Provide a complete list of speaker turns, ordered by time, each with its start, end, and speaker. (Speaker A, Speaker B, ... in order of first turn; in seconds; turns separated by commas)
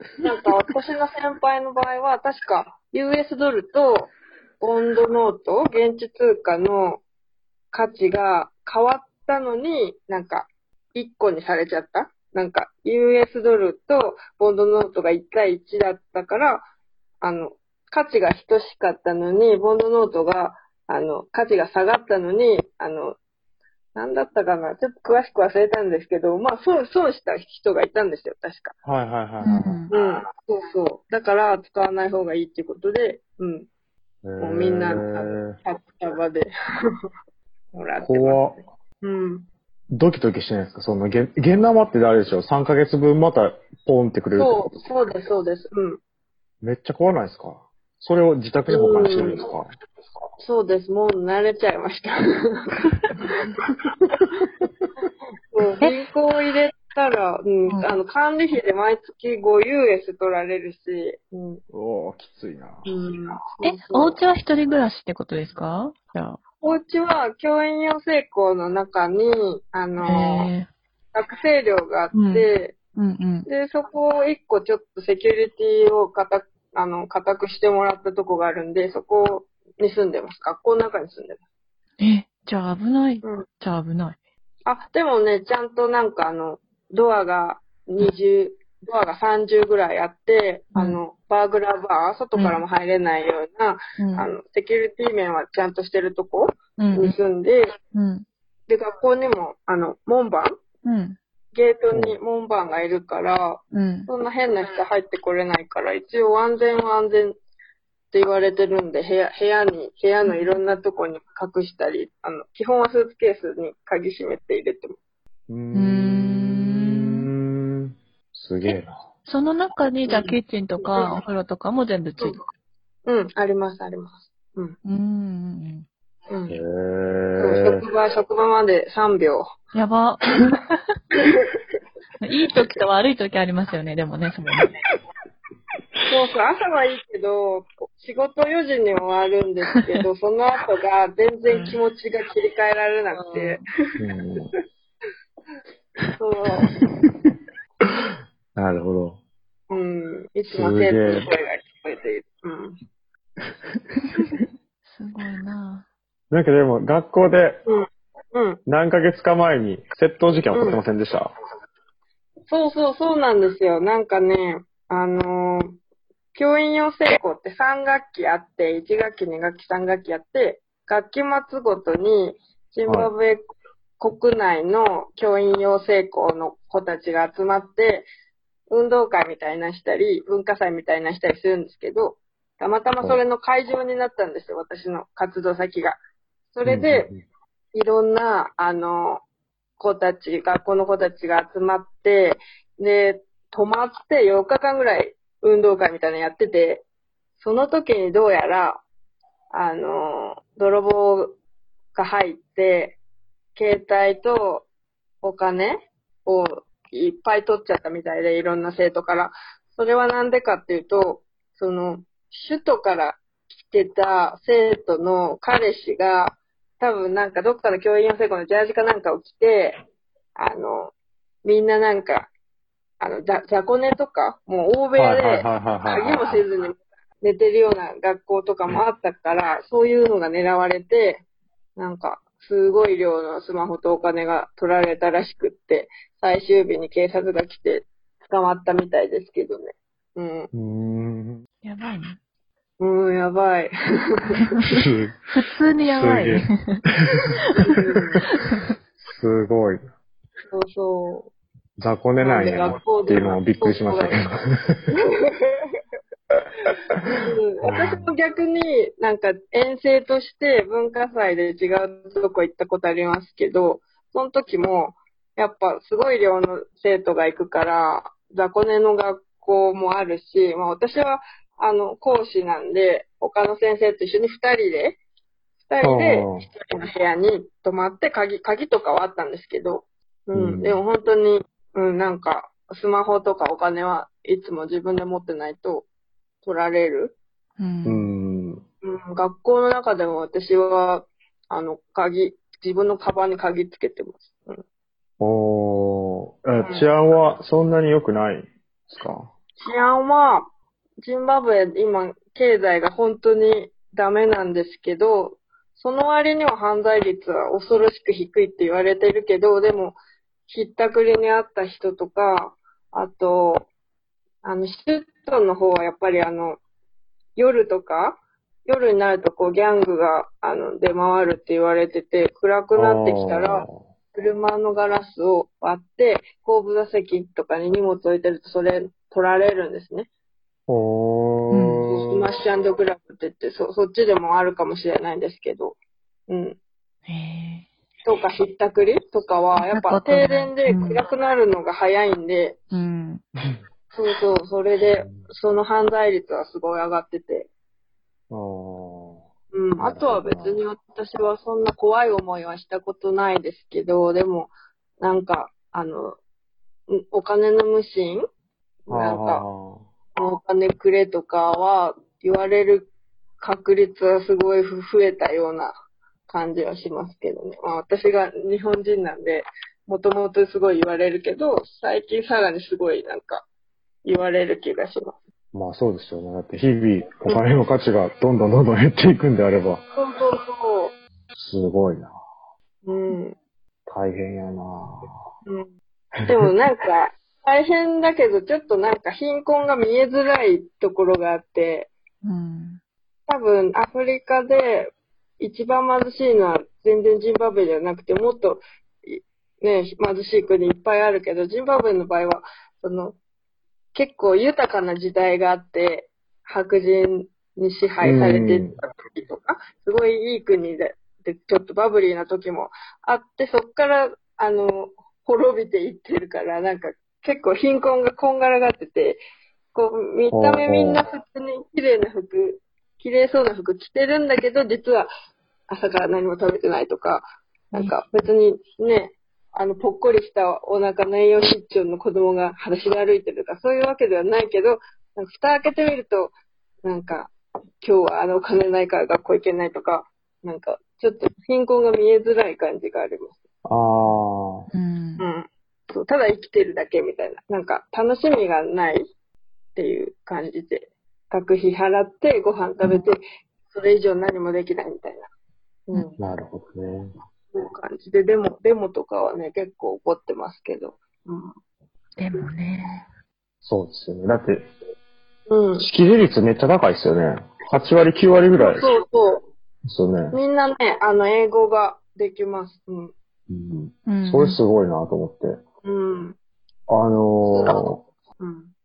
Speaker A: 0.2-7.0, Speaker A: 7.7-16.6, Speaker A: 17.2-23.2, Speaker A: 23.9-28.7, Speaker B: 28.9-29.9, Speaker C: 29.4-29.9, Speaker A: 29.9-33.7, Speaker B: 34.2-35.5, Speaker A: 34.4-36.5, Speaker A: 37.7-39.5, Speaker B: 38.0-38.6, Speaker B: 39.9-44.8, Speaker A: 44.4-46.0, Speaker B: 46.6-49.7, Speaker A: 48.7-49.5, Speaker A: 50.4-53.4, Speaker A: 55.5-61.6, Speaker B: 61.7-62.9, Speaker A: 62.9-64.2, Speaker C: 63.6-66.4, Speaker A: 66.6-70.5, Speaker C: 70.0-70.7, Speaker A: 71.1-72.8, Speaker C: 72.1-73.5, Speaker A: 73.5-81.4, Speaker C: 82.0-84.2, Speaker A: 84.7-97.7, Speaker C: 92.3-92.6, Speaker C: 94.0-94.3, Speaker C: 96.8-97.2, Speaker C: 97.9-98.2, Speaker A: 98.7-100.6, Speaker C: 100.8-101.2, Speaker A: 101.5-107.3, Speaker B: 101.9-102.2, Speaker C: 103.7-104.1, Speaker A: 108.1-115.0, Speaker C: 110.2-110.5, Speaker B: 115.5-118.9, Speaker C: 115.7-117.3, Speaker C: 118.6-122.4, Speaker A: 120.0-121.1, Speaker A: 123.1-124.8, Speaker C: 124.8-125.9, Speaker A: 126.3-126.6, Speaker B: 126.5-127.8, Speaker A: 127.4-129.5, Speaker C: 129.7-130.8, Speaker A: 131.2-131.5, Speaker C: 132.2-134.8, Speaker A: 136.1-143.6, Speaker C: 141.5-141.8, Speaker C: 143.1-143.6, Speaker B: 144.0-144.5, Speaker A: 146.2-146.7, Speaker B: 146.6-147.3, Speaker B: 148.6-149.2, Speaker A: 149.7-152.8, Speaker B: 150.5-151.3, Speaker C: 154.9-155.9, Speaker B: 156.3-157.6, Speaker A: 157.7-158.6, Speaker B: 158.7-161.3, Speaker A: 160.5-160.8, Speaker A: 162.5-165.8, Speaker A: 166.3-173.5, Speaker B: 172.9-173.1, Speaker A: 174.0-178.1, Speaker A: 178.7-186.0, Speaker A: 186.5-187.1, Speaker B: 186.7-187.2, Speaker A: 187.7-189.2, Speaker A: 189.8-196.8, Speaker A: 197.4-198.8, Speaker A: 199.5-201.4, Speaker A: 201.9-203.0, Speaker A: 203.6-204.7, Speaker A: 205.2-219.8, Speaker A: 220.3-220.9, Speaker A: 221.4-222.3, Speaker A: 223.0-231.2, Speaker B: 225.0-226.4, Speaker A: 231.8-240.5, Speaker B: 240.5-241.4, Speaker C: 241.6-242.2, Speaker A: 242.8-244.6, Speaker B: 244.7-246.5, Speaker C: 245.3-246.8, Speaker A: 247.6-248.2, Speaker B: 249.0-249.8, Speaker A: 250.5-251.3, Speaker B: 251.8-254.8, Speaker A: 252.2-254.3, Speaker A: 254.9-255.8, Speaker A: 257.2-275.0, Speaker B: 257.6-258.1, Speaker A: 275.6-285.9, Speaker B: 275.8-276.5, Speaker B: 280.3-280.8, Speaker A: 286.4-287.2, Speaker C: 287.6-288.1, Speaker B: 287.9-288.6, Speaker A: 288.8-294.6, Speaker B: 295.2-299.3, Speaker A: 296.6-296.9, Speaker A: 299.6-300.5, Speaker A: 301.0-313.7, Speaker A: 314.4-316.6, Speaker A: 317.4-330.1, Speaker B: 322.8-323.8, Speaker B: 330.7-332.3, Speaker C: 331.5-331.9, Speaker A: 331.9-335.8, Speaker A: 336.3-336.6, Speaker C: 337.1-337.7, Speaker A: 338.1-342.6, Speaker C: 339.6-341.0, Speaker C: 342.7-343.2, Speaker A: 343.9-347.5, Speaker B: 345.0-345.2, Speaker B: 348.3-349.3, Speaker A: 349.5-356.2, Speaker B: 349.8-350.6, Speaker A: 356.9-358.3, Speaker A: 358.9-359.4, Speaker B: 358.9-359.9, Speaker A: 360.2-365.7, Speaker A: 366.3-373.5, Speaker A: 374.1-375.2, Speaker B: 375.5-379.8, Speaker A: 379.9-380.9, Speaker B: 381.3-382.1, Speaker A: 382.9-383.4, Speaker B: 383.9-385.1, Speaker A: 385.4-385.7, Speaker A: 386.3-391.9, Speaker C: 392.2-392.8, Speaker A: 393.3-403.2, Speaker A: 403.9-419.2, Speaker B: 408.0-408.8, Speaker A: 419.7-425.1, Speaker B: 420.3-421.0, Speaker A: 425.7-436.3, Speaker A: 436.9-443.4, Speaker B: 443.6-444.7, Speaker C: 444.7-445.2, Speaker A: 445.2-449.1, Speaker A: 449.8-455.3, Speaker A: 455.9-456.2, Speaker B: 456.2-457.1, Speaker A: 457.5-461.5, Speaker C: 462.2-463.0, Speaker B: 463.6-464.6, Speaker A: 465.5-465.9, Speaker B: 465.8-468.9, Speaker A: 468.6-469.5, Speaker B: 469.9-470.4, Speaker A: 470.3-473.1, Speaker B: 473.5-475.6, Speaker C: 474.1-474.6, Speaker A: 475.8-476.4, Speaker B: 476.9-478.0, Speaker A: 477.5-478.7